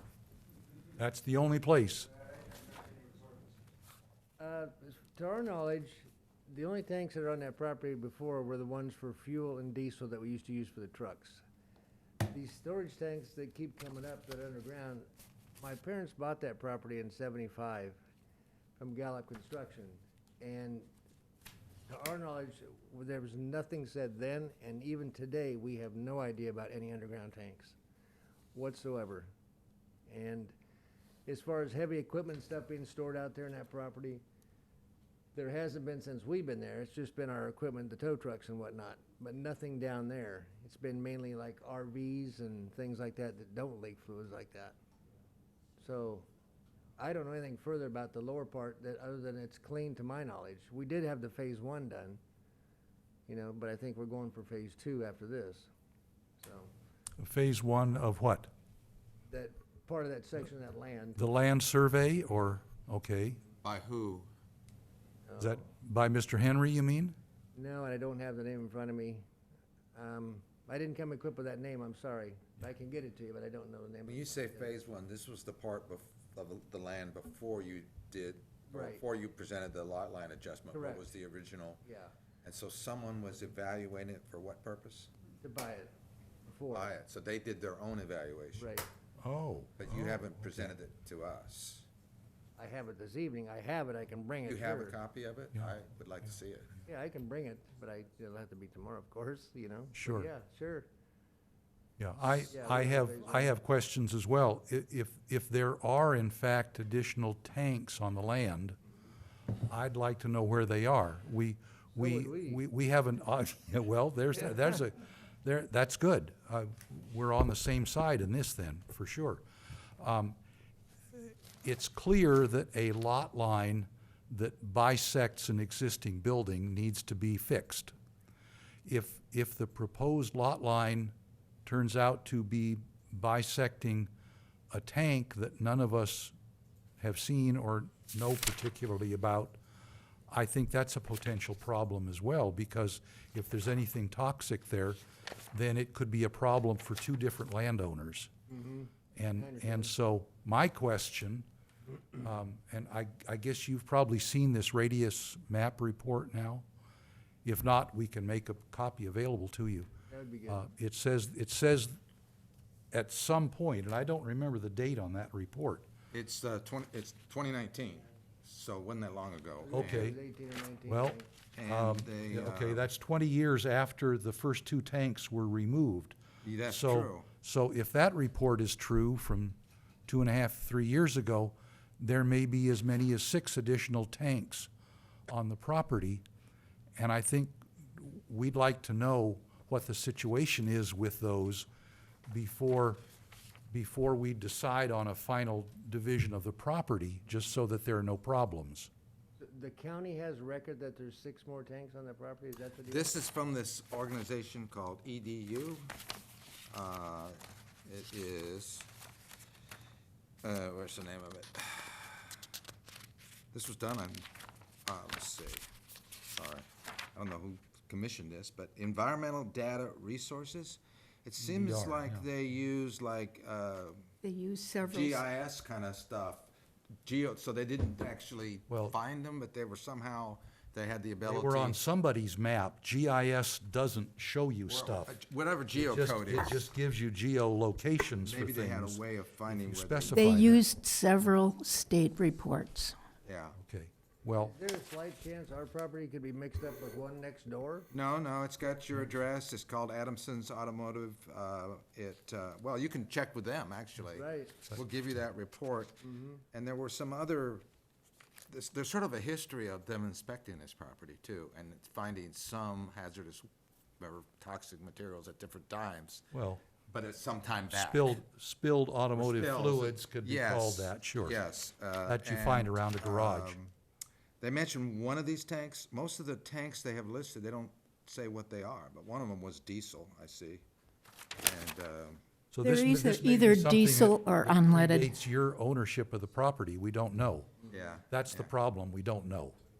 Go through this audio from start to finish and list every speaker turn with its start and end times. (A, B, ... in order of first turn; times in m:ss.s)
0:01.0-0:02.1 A
0:04.4-0:11.4 B
0:12.3-0:15.1 B
0:15.6-0:18.0 B
0:18.8-0:20.9 B
0:21.9-0:27.8 B
0:28.5-0:29.3 B
0:30.1-0:30.5 B
0:31.3-0:34.2 B
0:35.4-0:44.8 B
0:45.8-0:46.3 B
0:47.0-0:52.2 B
0:53.3-0:55.7 B
0:56.4-0:56.7 B
0:57.2-0:58.5 A
0:59.3-1:01.2 B
1:01.2-1:03.4 A
1:03.6-1:04.3 C
1:05.3-1:05.6 B
1:05.4-1:07.2 A
1:07.6-1:09.2 B
1:10.0-1:14.8 B
1:14.1-1:21.8 C
1:18.7-1:19.0 B
1:20.7-1:21.1 B
1:21.8-1:22.1 B
1:22.4-1:25.1 C
1:25.4-1:25.9 B
1:26.5-1:27.0 B
1:26.7-1:28.7 C
1:28.6-1:28.9 B
1:29.2-1:30.7 A
1:29.8-1:31.9 C
1:32.6-1:35.0 B
1:34.5-1:36.7 C
1:36.9-1:40.9 B
1:39.9-1:40.3 A
1:42.0-1:48.8 A
1:42.5-1:43.5 B
1:49.7-1:59.4 A
1:52.0-1:52.6 B
2:00.0-2:00.4 A
2:01.1-2:08.0 A
2:08.8-2:11.1 A
2:11.6-2:14.1 A
2:14.7-2:16.3 A
2:17.0-2:19.6 A
2:20.3-2:25.0 A
2:25.5-2:28.3 A
2:28.5-2:29.9 B
2:29.2-2:31.5 A
2:32.2-2:36.7 A
2:37.4-2:39.9 A
2:40.1-2:40.7 B
2:40.5-2:42.0 A
2:42.9-2:45.9 A
2:46.1-2:50.2 C
2:49.6-2:51.3 B
2:49.7-2:50.2 A
2:50.9-3:04.7 A
2:51.6-2:52.9 C
2:56.4-2:57.3 C
3:05.3-3:06.2 A
3:07.0-3:11.7 A
3:12.3-3:13.0 A
3:13.7-3:18.9 A
3:19.4-3:23.2 B
3:22.9-3:25.9 C
3:26.7-3:28.9 C
3:30.4-3:32.4 C
3:33.5-3:34.3 C
3:34.8-3:35.7 C
3:36.3-3:44.1 C
3:41.4-3:42.2 A
3:44.2-3:45.2 D
3:44.8-3:46.5 C
3:47.0-3:51.8 C
3:48.7-3:49.0 A
3:51.3-3:55.1 A
3:54.7-3:56.7 C
3:55.7-4:00.6 A
3:58.2-4:00.4 C
4:00.1-4:03.0 D
4:03.2-4:03.6 C
4:03.6-4:04.6 A
4:04.4-4:07.9 B
4:07.9-4:17.6 C
4:14.1-4:14.6 B
4:16.0-4:16.4 B
4:18.5-4:23.5 C
4:24.0-4:26.3 C
4:26.3-4:26.6 A
4:26.9-4:28.2 C
4:27.7-4:31.4 A
4:29.2-4:33.7 C
4:32.1-4:33.6 A
4:34.4-4:40.6 C
4:41.4-4:42.2 C
4:42.5-4:47.5 A
4:42.6-4:45.1 D
4:47.7-4:48.5 C
4:48.1-4:49.6 A